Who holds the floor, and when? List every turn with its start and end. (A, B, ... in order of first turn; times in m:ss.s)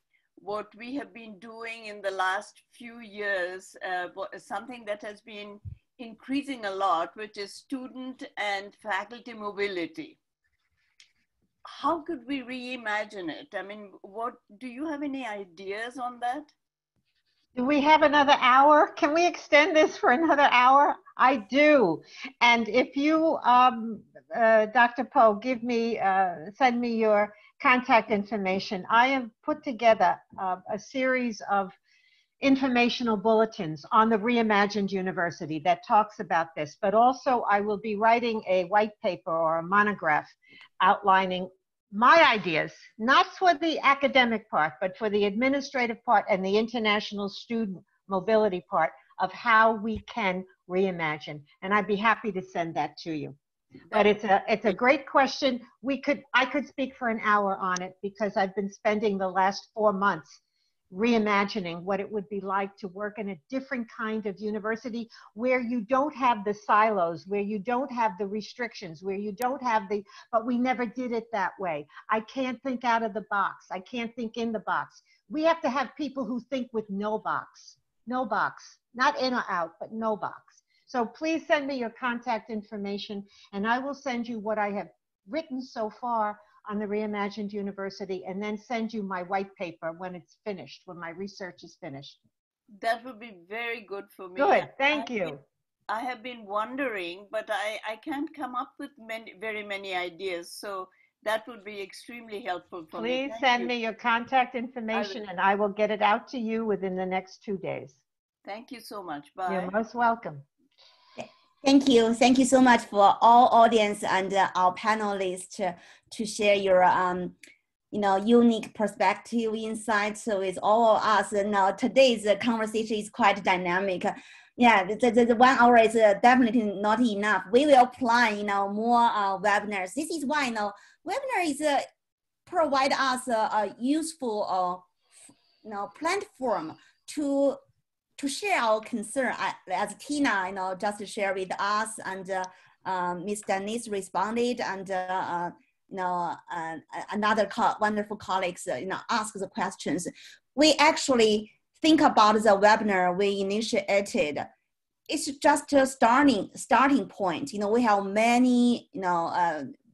0:00.4-0:10.2 A
0:11.6-0:16.5 A
0:17.6-0:31.7 B
0:32.4-0:53.4 B
0:53.9-1:00.4 B
1:00.9-1:32.2 B
1:32.8-1:35.4 A
1:34.4-1:35.4 B
1:35.9-1:43.7 A
1:42.9-1:48.0 B
1:44.9-1:45.2 A
1:48.4-1:49.7 A
1:49.5-1:50.4 B
1:51.2-1:57.4 C
1:57.9-2:11.8 C
2:12.4-2:14.9 C
2:15.6-2:17.6 C
2:18.2-2:34.4 C
2:35.1-2:39.7 C